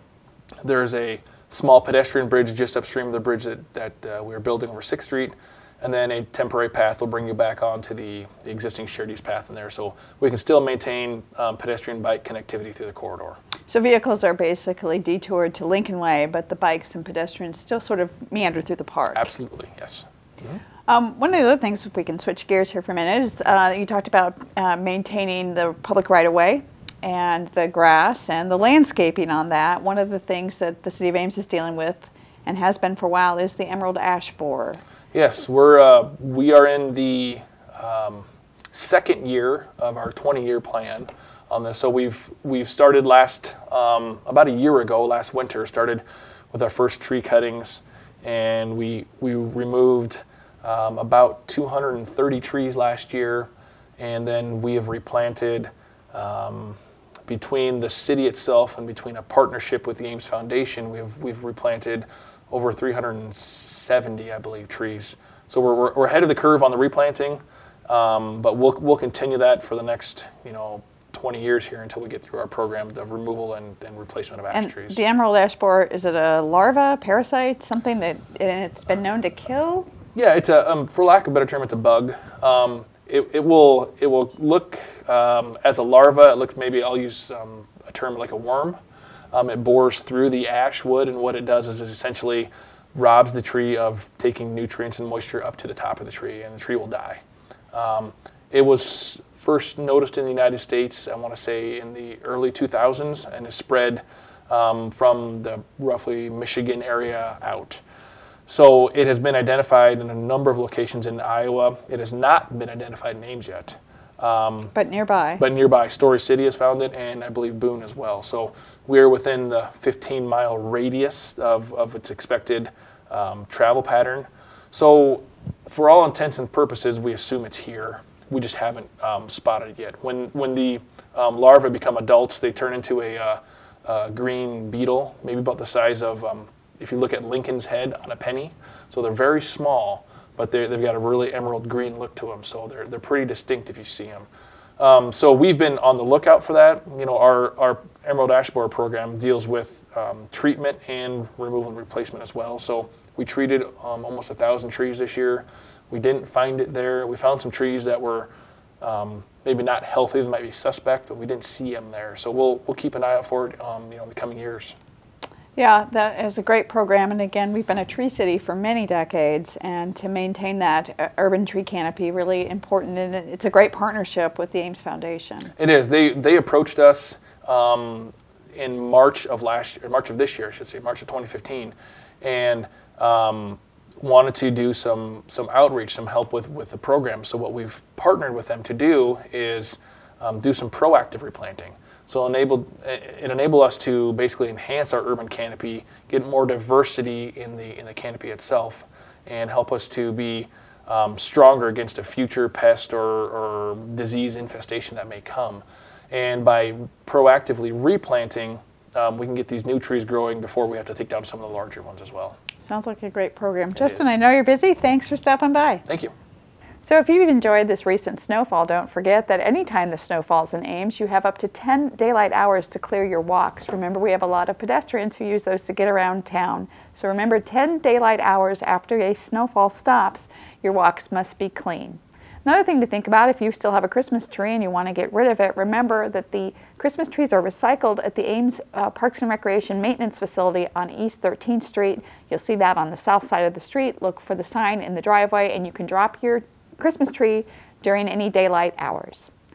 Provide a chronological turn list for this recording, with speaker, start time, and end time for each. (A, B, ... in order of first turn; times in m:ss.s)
0:00.6-0:13.4 A
0:13.7-0:19.3 B
0:19.1-0:20.6 A
0:20.9-0:34.8 B
0:35.1-1:15.0 A
1:14.5-1:19.9 B
1:20.1-1:28.8 A
1:29.3-1:37.2 A
1:37.7-1:47.8 A
1:48.5-1:54.7 A
1:54.7-1:55.4 B
1:55.4-2:24.3 A
2:24.8-2:44.8 A
2:45.6-2:55.5 B
2:55.6-3:32.4 A
3:32.6-3:35.8 B
3:33.8-3:34.1 A
3:35.9-3:36.1 A
3:36.8-4:09.3 B